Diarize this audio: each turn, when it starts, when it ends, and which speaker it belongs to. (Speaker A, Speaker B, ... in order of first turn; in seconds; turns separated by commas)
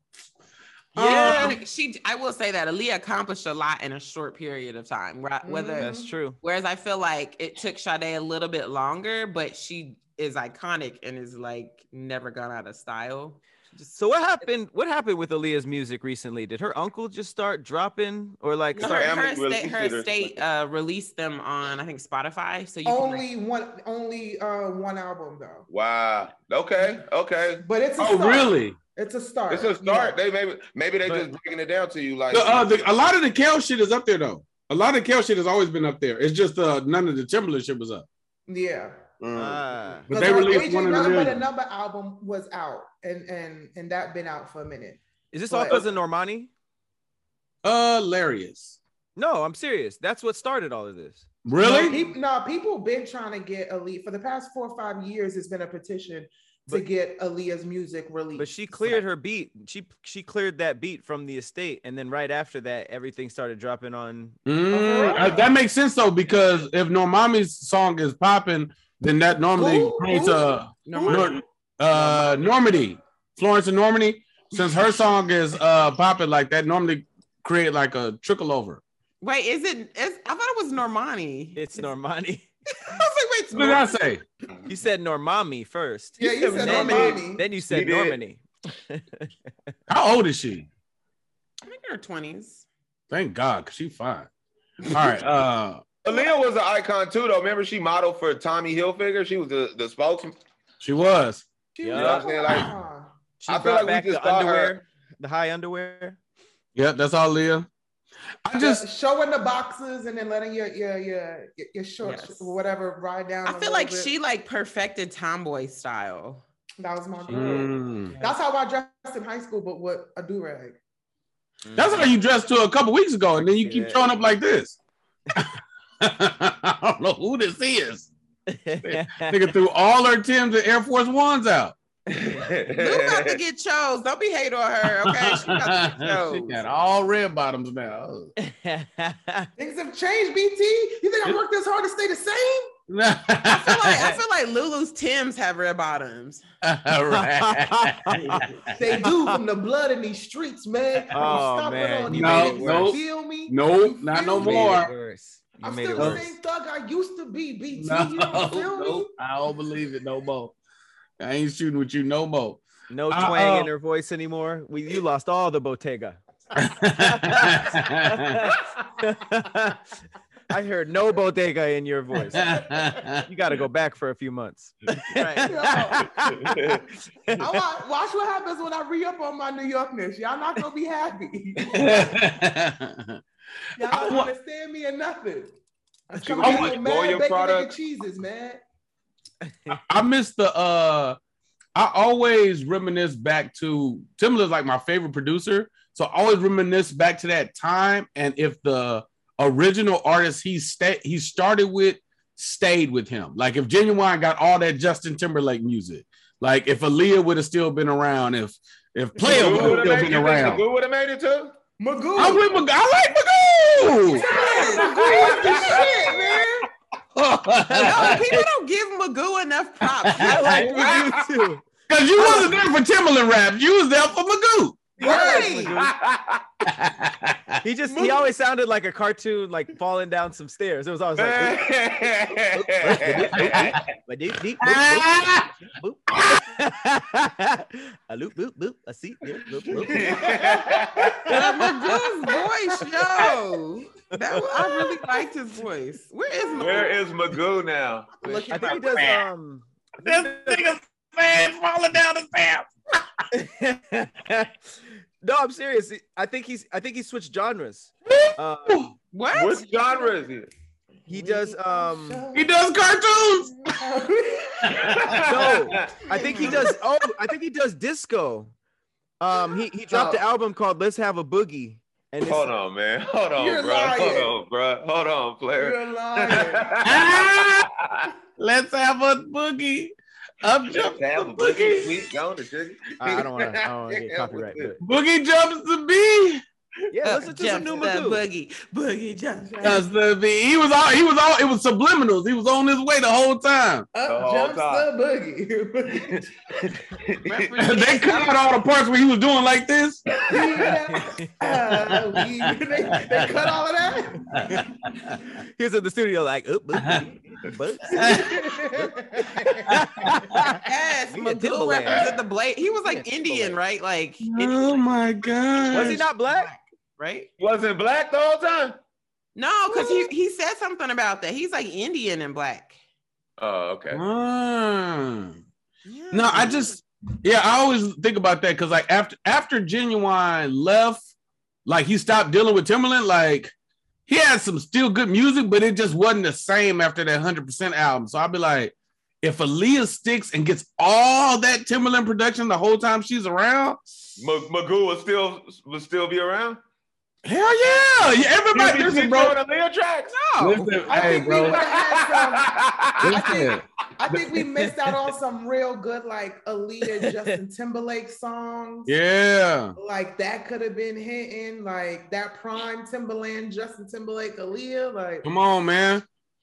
Speaker A: 1.0-1.6, Speaker B: 1.0-1.6, Speaker C: 1.0-14.5, Speaker D: 5.4-6.1, Speaker A: 5.8-6.4, Speaker A: 13.9-19.1, Speaker C: 18.7-23.2, Speaker E: 18.8-20.4, Speaker D: 22.9-25.7, Speaker E: 25.7-27.6, Speaker D: 27.6-30.2, Speaker B: 28.0-28.8, Speaker E: 29.5-32.8, Speaker B: 32.3-38.1, Speaker D: 38.5-39.0, Speaker B: 39.2-41.4, Speaker A: 39.3-40.7, Speaker D: 40.1-45.8, Speaker A: 45.3-46.5, Speaker B: 47.6-48.8, Speaker A: 49.2-52.1, Speaker B: 51.5-52.0, Speaker D: 51.6-58.6, Speaker A: 58.4-64.4, Speaker B: 64.5-78.8, Speaker D: 64.7-65.5, Speaker D: 69.6-70.5, Speaker C: 70.9-71.4, Speaker A: 71.9-72.4, Speaker C: 79.2-81.8, Speaker A: 81.5-82.5, Speaker C: 82.8-83.9, Speaker B: 83.5-84.2, Speaker A: 84.7-89.3, Speaker D: 86.2-87.5, Speaker B: 86.6-87.0, Speaker E: 86.9-88.2, Speaker B: 89.9-90.7, Speaker C: 91.6-92.7, Speaker B: 93.1-94.3, Speaker B: 94.9-95.8, Speaker E: 96.0-100.4, Speaker B: 100.8-101.5, Speaker D: 101.8-103.1, Speaker A: 101.8-102.2, Speaker E: 101.9-102.7, Speaker A: 103.4-106.2, Speaker E: 103.5-104.8, Speaker B: 106.8-107.7, Speaker B: 108.5-108.8, Speaker D: 108.6-114.1, Speaker C: 112.0-112.5, Speaker C: 113.5-116.4, Speaker D: 116.8-120.8, Speaker B: 117.3-118.2, Speaker A: 121.6-122.1, Speaker B: 121.8-124.8, Speaker A: 123.6-124.1, Speaker B: 125.3-128.1, Speaker A: 128.5-129.4, Speaker B: 128.9-131.8, Speaker E: 132.1-133.4, Speaker C: 132.8-136.6, Speaker B: 135.0-138.3, Speaker A: 138.4-139.5, Speaker D: 139.6-142.7, Speaker B: 142.9-144.2, Speaker C: 143.5-146.4, Speaker B: 146.6-149.1, Speaker A: 147.1-148.5, Speaker D: 148.8-154.9, Speaker A: 149.0-149.3, Speaker A: 151.1-153.0, Speaker B: 152.1-154.9, Speaker A: 154.3-156.3, Speaker D: 155.6-159.1, Speaker B: 156.0-156.2, Speaker B: 157.8-160.6, Speaker B: 161.2-163.7, Speaker A: 162.9-166.2, Speaker B: 166.6-168.5, Speaker A: 167.0-169.8, Speaker A: 170.5-172.7, Speaker B: 172.2-173.3, Speaker A: 173.2-177.6, Speaker C: 175.2-175.5, Speaker D: 175.4-176.3, Speaker E: 176.4-176.8, Speaker D: 177.4-182.2, Speaker B: 181.7-183.2, Speaker D: 183.8-185.5, Speaker B: 183.9-184.3, Speaker A: 183.9-184.2, Speaker D: 186.1-188.6, Speaker E: 186.2-187.7, Speaker B: 186.4-186.8, Speaker A: 189.5-189.8, Speaker B: 189.9-191.2, Speaker B: 191.8-210.6, Speaker D: 209.2-209.8, Speaker E: 209.2-211.5, Speaker D: 211.8-212.4, Speaker B: 212.2-215.8, Speaker D: 214.1-216.7, Speaker E: 214.8-216.3, Speaker B: 217.2-218.4, Speaker C: 217.8-221.0, Speaker B: 220.0-221.2, Speaker A: 220.1-221.7, Speaker B: 221.9-224.9, Speaker A: 222.2-222.5, Speaker D: 225.0-225.8, Speaker A: 225.0-225.9, Speaker E: 225.0-226.4, Speaker C: 225.2-225.5, Speaker B: 226.7-227.6, Speaker A: 227.6-231.7, Speaker D: 227.9-228.3, Speaker E: 231.2-233.9, Speaker A: 232.5-240.7, Speaker B: 233.3-233.8, Speaker B: 234.6-235.5, Speaker B: 236.1-236.5, Speaker E: 239.7-241.3, Speaker A: 241.3-241.9, Speaker C: 241.3-247.0, Speaker A: 244.2-245.0, Speaker E: 246.6-248.2, Speaker C: 248.2-249.1, Speaker A: 248.3-250.6, Speaker B: 249.0-249.2, Speaker B: 250.0-252.7, Speaker A: 253.3-254.6, Speaker A: 255.2-258.9, Speaker B: 258.1-258.9, Speaker C: 259.1-259.7, Speaker E: 259.3-260.5, Speaker D: 261.1-262.5, Speaker A: 261.1-262.3, Speaker B: 262.3-263.7, Speaker D: 263.6-265.0, Speaker B: 264.6-265.6, Speaker E: 265.0-266.1, Speaker A: 265.3-268.5, Speaker D: 266.1-266.8, Speaker A: 269.2-272.5, Speaker D: 269.9-270.2, Speaker E: 272.2-278.1, Speaker D: 273.4-274.3, Speaker D: 275.6-276.8, Speaker B: 276.8-277.7, Speaker B: 278.4-282.1, Speaker E: 280.7-284.8, Speaker A: 283.0-284.8, Speaker B: 284.8-286.4, Speaker A: 286.9-288.2, Speaker C: 287.0-289.8, Speaker D: 289.4-289.8, Speaker B: 289.6-293.9, Speaker D: 293.9-296.3, Speaker E: 294.1-294.9, Speaker E: 296.1-297.5, Speaker C: 297.2-298.4, Speaker B: 297.6-300.1, Speaker D: 300.3-304.4, Speaker A: 300.9-301.5, Speaker B: 301.9-303.3, Speaker B: 304.3-305.2, Speaker A: 304.4-304.6, Speaker A: 305.6-308.4, Speaker B: 306.8-307.1, Speaker B: 307.9-308.4, Speaker D: 307.9-309.7, Speaker A: 309.4-312.1, Speaker B: 309.7-310.6, Speaker C: 310.6-314.8, Speaker A: 312.8-313.6, Speaker B: 314.2-316.1, Speaker A: 315.7-316.5, Speaker C: 315.8-317.3, Speaker E: 317.4-318.8, Speaker C: 319.4-322.8, Speaker D: 319.7-320.1, Speaker E: 323.4-324.0, Speaker B: 323.9-325.4, Speaker C: 325.9-326.8, Speaker B: 326.1-331.1, Speaker B: 331.7-333.5, Speaker B: 334.1-344.3, Speaker E: 344.2-346.6, Speaker B: 347.2-349.4, Speaker E: 348.5-350.2, Speaker C: 350.1-350.8, Speaker B: 350.4-351.6, Speaker D: 350.9-358.9, Speaker E: 351.5-353.2, Speaker B: 353.0-354.4, Speaker A: 356.9-357.4, Speaker B: 358.9-359.8, Speaker D: 359.8-365.3, Speaker B: 365.2-366.1